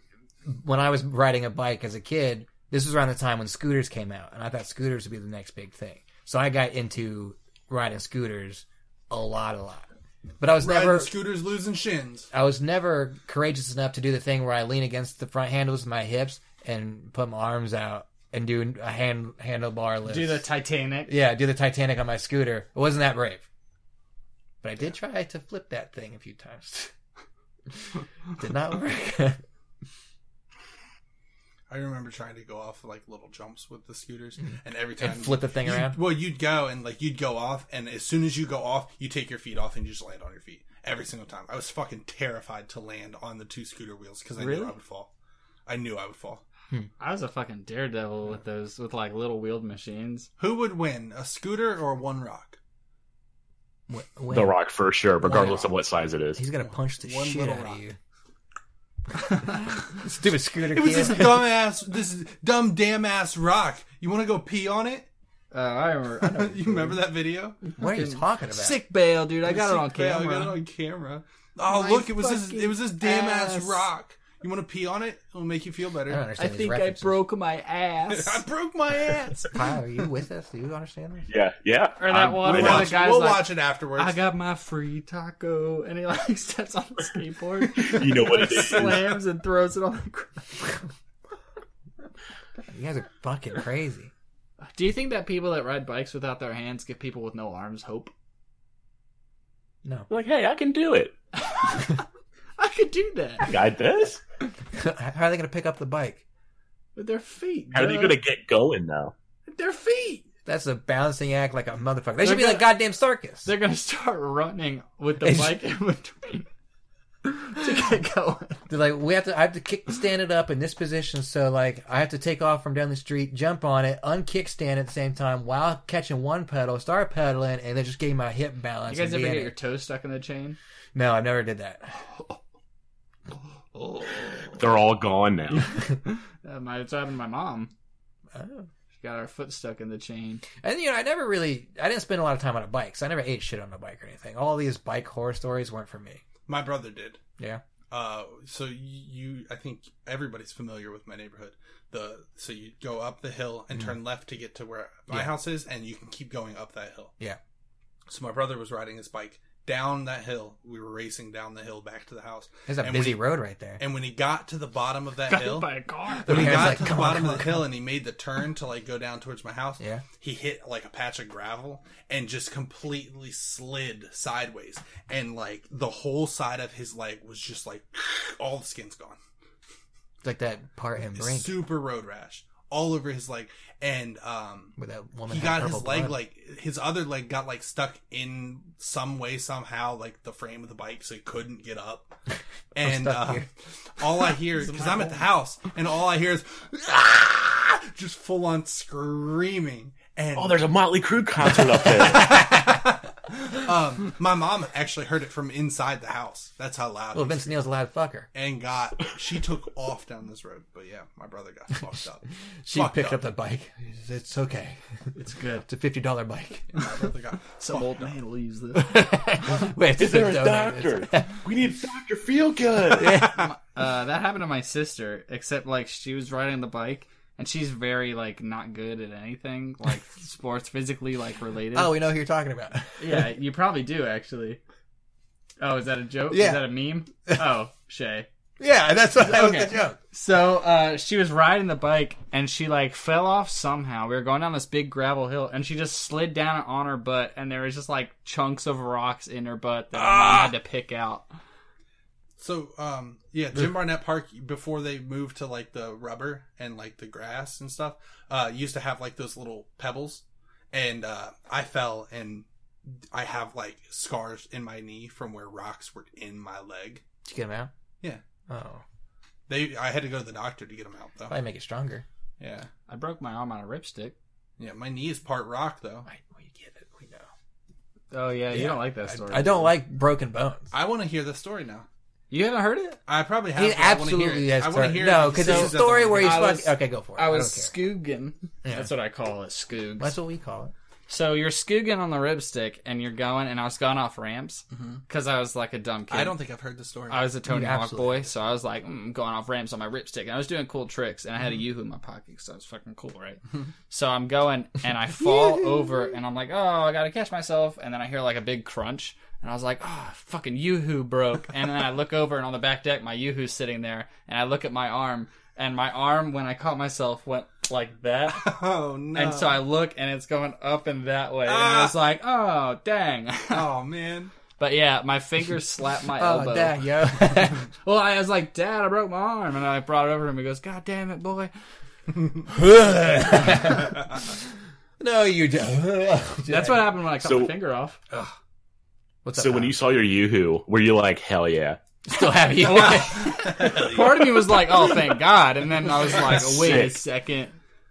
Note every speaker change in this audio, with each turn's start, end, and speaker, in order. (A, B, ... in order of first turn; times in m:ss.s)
0:00.4-0:09.9 A
0:10.4-0:11.1 A
0:10.6-0:12.3 B
0:12.3-0:20.4 A
0:20.1-0:21.1 C
0:21.1-0:23.4 A
0:24.6-0:26.9 A
0:28.4-0:29.4 A
0:31.7-0:45.1 B
0:35.0-0:36.0 A
0:44.4-0:44.7 C
0:45.7-0:46.4 B
0:47.0-0:50.3 C
0:50.4-0:52.6 B
0:53.9-0:54.6 A
0:54.3-0:56.4 D
0:55.2-0:55.7 A
0:56.4-0:58.0 A
0:56.6-0:57.8 B
0:59.9-1:01.5 A
1:00.7-1:05.1 B
1:05.5-1:07.0 C
1:06.2-1:07.6 B
1:07.6-1:10.6 C
1:07.8-1:08.8 A
1:09.4-1:16.3 B
1:11.7-1:13.9 C
1:16.1-1:17.2 A
1:16.4-1:18.4 C
1:18.1-1:19.7 B
1:19.5-1:21.3 A
1:21.3-1:23.0 D
1:22.0-1:30.7 C
1:22.4-1:24.2 B
1:27.7-1:29.2 D
1:32.7-1:34.1 A
1:34.6-1:38.1 C
1:40.1-1:41.1 D
1:41.5-1:42.0 C
1:42.6-1:43.5 C
1:43.4-1:44.2 D
1:44.7-1:46.2 A
1:47.0-1:48.2 C
1:47.7-1:49.1 D
1:49.5-1:50.2 C
1:50.5-1:53.5 A
1:52.2-1:52.7 C
1:53.4-1:56.5 C
1:55.2-1:55.6 A
1:57.2-1:58.6 C
1:58.7-2:09.5 A
2:08.9-2:10.6 C
2:11.0-2:12.0 A
2:13.8-2:14.1 C
2:14.6-2:15.7 D
2:16.4-2:17.7 C
2:18.3-2:18.7 A
2:19.0-2:20.4 C
2:20.6-2:26.2 A
2:26.5-2:27.2 B
2:27.9-2:37.2 B
2:38.1-2:43.2 B
2:42.7-2:43.8 A
2:43.8-2:45.7 B
2:45.3-2:46.8 C
2:46.2-2:47.7 A
2:46.2-2:59.2 B
3:00.2-3:01.7 A
3:01.1-3:04.8 B
3:04.8-3:06.2 A
3:05.3-3:12.1 B
3:12.7-3:20.7 B
3:12.8-3:13.5 A
3:14.6-3:15.3 C
3:20.4-3:22.3 D
3:21.6-3:27.4 B
3:22.1-3:22.5 A
3:27.1-3:28.3 A
3:28.3-3:33.2 B
3:32.6-3:34.8 A
3:35.2-3:35.7 C
3:35.7-3:36.7 A
3:36.7-3:38.1 B
3:37.5-3:39.0 C
3:38.7-3:41.3 A
3:40.0-3:43.2 D
3:42.8-3:43.5 B
3:43.0-3:43.5 A
3:43.3-3:51.9 C
3:51.7-3:53.2 A
3:53.0-3:54.6 C
3:55.6-3:58.3 C
3:56.3-3:56.6 A
3:58.6-4:00.0 A
3:59.2-4:11.3 C
4:10.0-4:10.5 B
4:12.4-4:27.0 B
4:27.2-4:27.7 A
4:28.5-4:28.8 A
4:29.5-4:31.4 B
4:31.3-4:32.0 A
4:32.4-4:32.7 B
4:32.9-4:34.2 C
4:34.6-4:36.1 B
4:36.1-4:37.3 A
4:38.1-4:39.7 C
4:38.5-4:40.7 A
4:40.7-4:41.9 B
4:42.3-4:43.0 C
4:43.1-4:46.6 B
4:43.6-4:47.7 A
4:45.4-4:50.2 C
4:48.6-4:48.9 A
4:50.0-4:50.7 A
4:51.1-4:56.4 C
4:54.7-4:55.0 B
4:56.1-4:57.2 B
4:57.1-5:18.5 C
4:57.4-4:58.3 A
5:18.3-5:19.6 B
5:19.2-5:23.7 C
5:21.5-5:22.0 B
5:23.5-5:24.3 B
5:24.6-5:26.8 C
5:26.2-5:27.7 A
5:27.8-5:31.5 C
5:32.5-5:34.1 A
5:35.0-5:37.0 A
5:36.5-5:38.0 C
5:37.2-5:37.5 D
5:39.2-5:39.8 A
5:39.4-5:41.8 D
5:42.0-5:43.6 A
5:42.6-5:47.5 C
5:42.7-5:44.3 B
5:46.1-5:47.0 D